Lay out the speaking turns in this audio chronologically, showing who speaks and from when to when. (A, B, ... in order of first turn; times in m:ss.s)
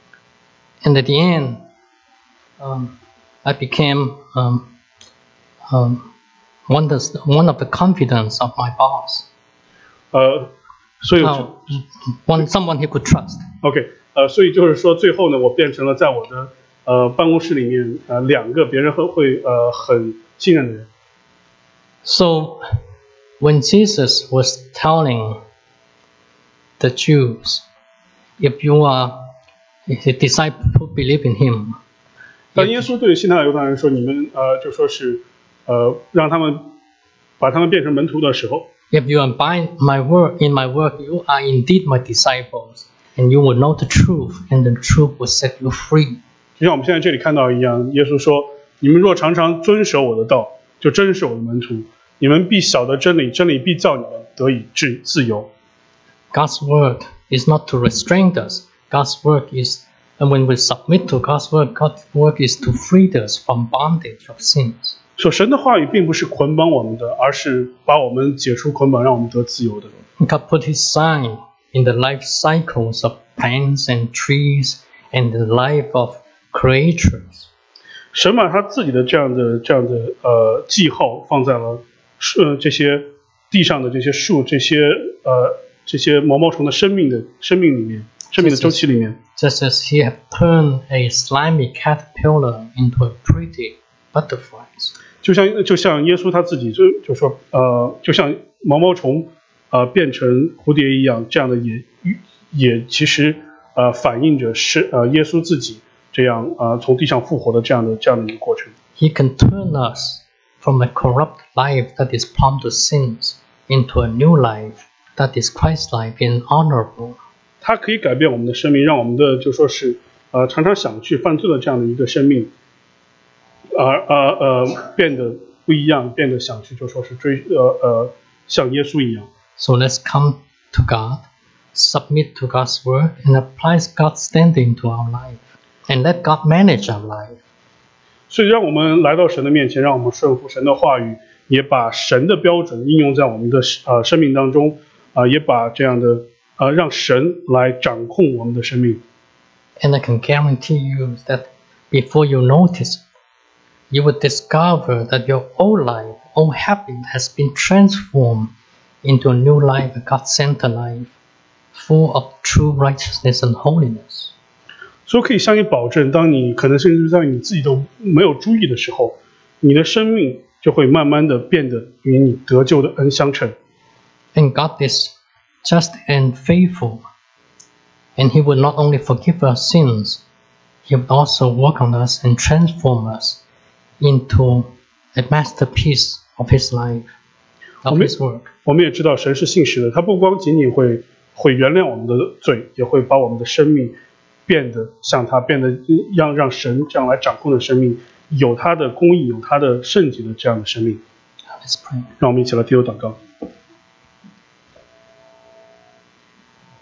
0:00.8-0:01.6 A
0:02.6-0:04.6 A
0:05.7-0:06.1 A
0:06.7-0:09.2 A
0:10.1-0:11.5 B
0:11.2-0:13.4 A
0:13.6-0:20.9 B
0:22.0-0:22.6 A
0:23.4-0:25.4 A
0:26.8-0:27.6 A
0:28.4-0:29.3 A
0:29.9-0:31.8 A
0:32.5-0:32.9 A
0:32.5-0:36.7 B
0:37.4-0:38.7 B
0:38.9-0:46.2 A
0:46.6-0:55.5 B
0:56.3-1:05.0 A
1:05.2-1:09.9 B
1:10.2-1:17.5 A
1:18.1-1:29.2 B
1:28.4-1:34.9 A
1:35.2-1:48.7 B
1:49.0-1:57.2 A
1:57.6-2:02.5 B
2:03.7-2:09.3 B
2:09.6-2:17.4 A
2:18.3-2:29.0 B
2:29.8-2:33.0 A
2:33.9-2:38.5 A
2:39.0-2:41.1 A
2:41.7-2:44.3 A
2:45.1-2:53.6 B
2:54.3-2:57.0 A
2:58.2-3:00.2 A
3:00.8-3:03.4 A
3:04.0-3:07.1 A
3:07.8-3:08.5 A
3:07.9-3:08.1 B
3:08.6-3:13.9 B
3:14.4-3:21.0 B
3:21.6-3:22.1 A
3:22.2-3:23.2 B